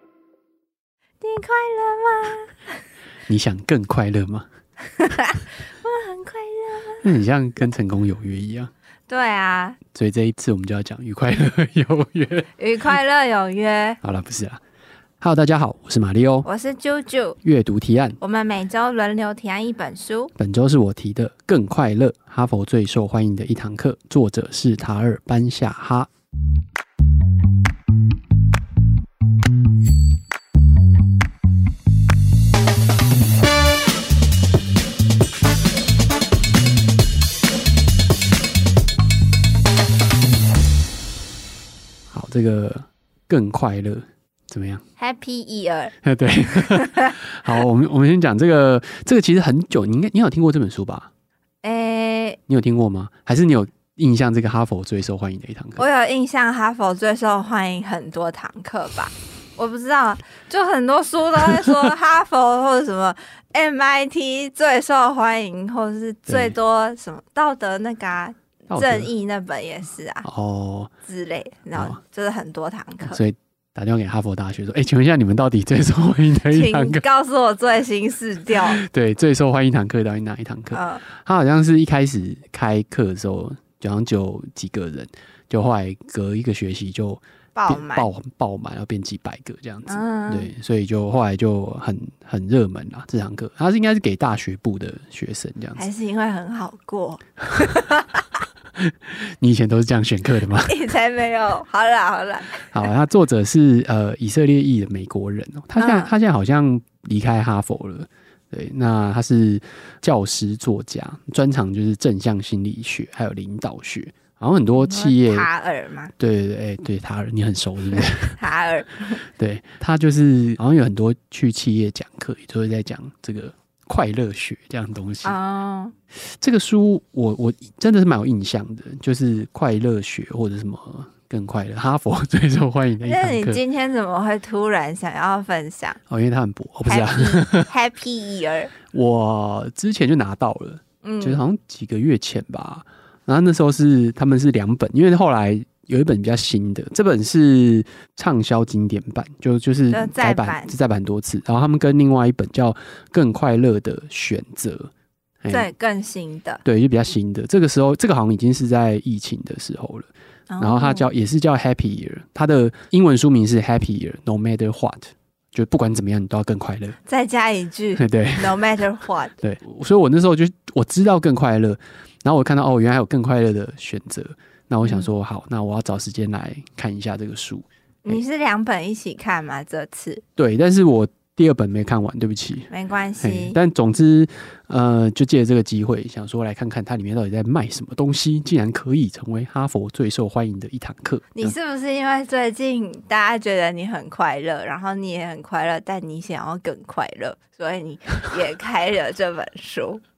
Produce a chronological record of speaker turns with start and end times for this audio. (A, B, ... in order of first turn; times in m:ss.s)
0:01.2-0:02.8 A
0:03.3-0:04.5 B
0:04.9-0:07.0 A
0:07.0-0:08.7 B
0:09.1-0:09.8 A
0:09.9-0:12.5 B
0:12.6-0:14.0 A
0:14.0-0:14.6 B
0:15.2-0:16.5 B
0:16.4-0:17.4 A
0:17.4-0:18.2 B
0:18.2-0:20.3 A
0:20.4-0:26.1 B
0:42.1-0:44.8 B
0:45.0-0:45.9 A
0:46.0-0:51.1 B
0:46.5-0:47.1 A
0:51.6-0:52.4 A
0:52.5-0:55.8 B
0:55.8-1:10.3 A
1:06.3-1:06.6 B
1:08.7-1:09.1 B
1:10.2-1:10.9 B
1:11.1-1:13.2 A
1:13.0-1:17.0 B
1:16.5-1:18.8 A
1:18.7-1:35.8 B
1:20.7-1:21.0 A
1:27.6-1:28.1 A
1:29.9-1:30.5 A
1:35.8-1:38.2 A
1:38.8-1:40.8 B
1:40.7-1:42.9 A
1:42.7-1:55.5 B
1:45.8-1:46.1 A
1:54.8-1:56.1 A
1:56.2-1:58.4 B
1:58.0-1:59.2 A
1:59.4-2:05.4 B
2:05.2-2:06.0 A
2:06.3-2:13.6 B
2:13.0-2:16.0 A
2:16.1-2:17.7 B
2:16.9-2:18.7 A
2:18.9-2:34.9 B
2:21.0-2:21.4 A
2:29.9-2:30.7 A
2:35.4-2:35.7 B
2:35.5-2:36.6 A
2:36.6-2:47.0 B
2:40.5-2:41.1 A
2:47.1-2:49.3 A
2:48.0-2:48.6 B
2:49.4-2:58.2 B
2:58.0-3:00.2 A
3:00.4-3:02.7 B
3:02.7-3:03.6 A
3:03.2-3:11.6 B
3:11.4-3:20.0 A